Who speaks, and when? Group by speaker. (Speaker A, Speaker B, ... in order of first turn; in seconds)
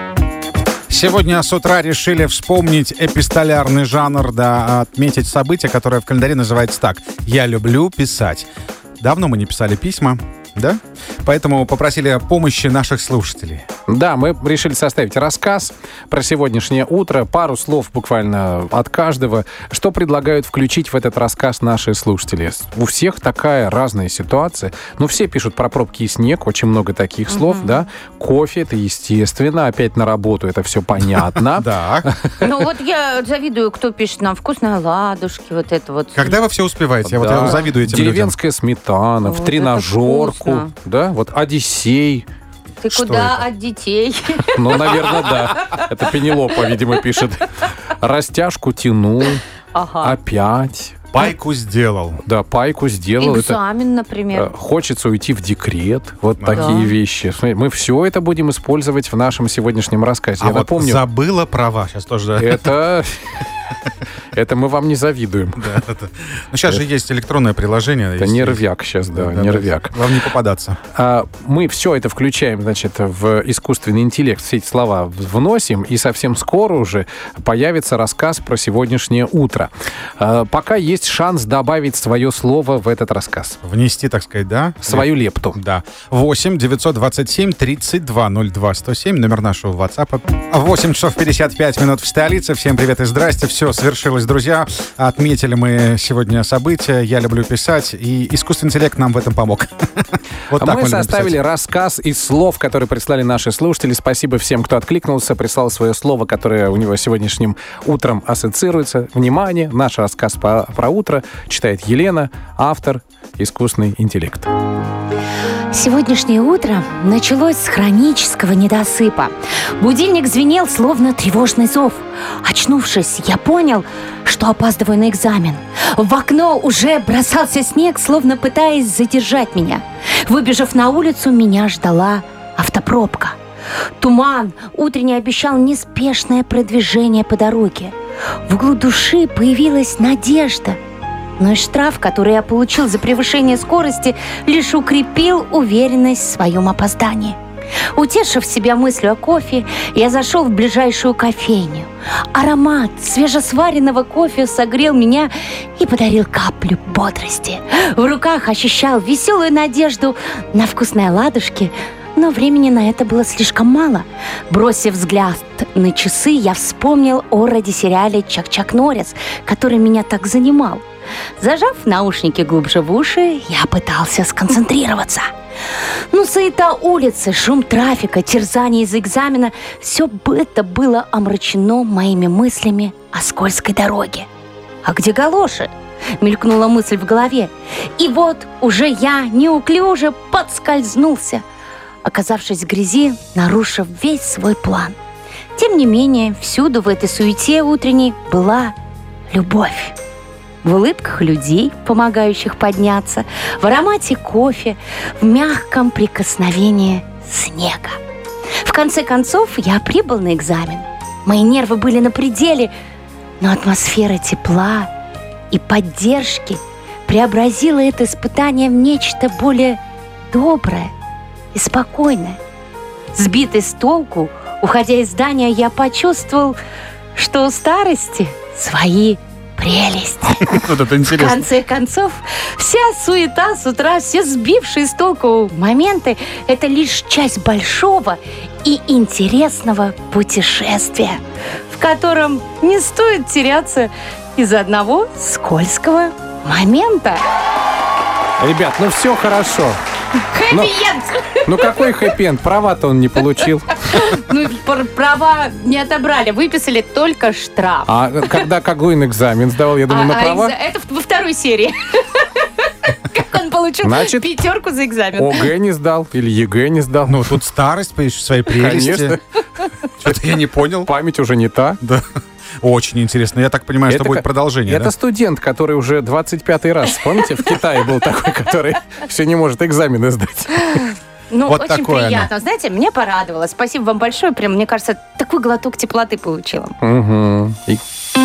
Speaker A: 0.9-8.5, 9.0-13.6, 31.6-32.1, 36.1-38.4, 42.9-43.5, 51.1-52.2, 56.4-56.8, 60.4-62.7, 65.6-70.8, 83.6-101.3, 230.4-231.4, 267.1-269.2, 270.0-270.9, 272.6-274.9, 281.4-282.3
Speaker B: 13.9-32.7, 37.0-42.2, 44.5-49.5, 50.0-51.1, 52.2-53.6, 54.3-61.0, 62.4-63.4, 64.3-65.8, 68.2-69.9, 70.9-83.6, 84.8-85.6, 100.5-114.5, 248.4-249.8, 250.5-250.8, 251.5-254.0, 257.9-260.5, 263.8-264.4, 265.1-267.4, 268.5-269.2, 270.7-271.8, 273.9-280.9, 286.8-287.8
Speaker C: 27.3-27.7, 32.4-36.3, 39.2-40.7, 42.8-44.9, 45.5-45.8, 49.7-50.1, 53.2-54.5, 56.5-56.9, 115.7-133.4, 134.0-137.9, 138.4-140.8, 141.4-147.4, 147.9-170.8, 171.4-175.3, 176.1-184.3, 184.8-191.4, 192.0-194.9, 195.5-198.7, 199.3-199.9, 200.6-208.0, 208.6-212.7, 213.4-214.9, 215.5-219.8, 220.3-220.9, 221.5-222.4, 223.1-226.6, 227.1-247.2, 250.3-251.4, 253.8-257.9, 259.9-262.2, 263.0-265.5, 281.3-286.7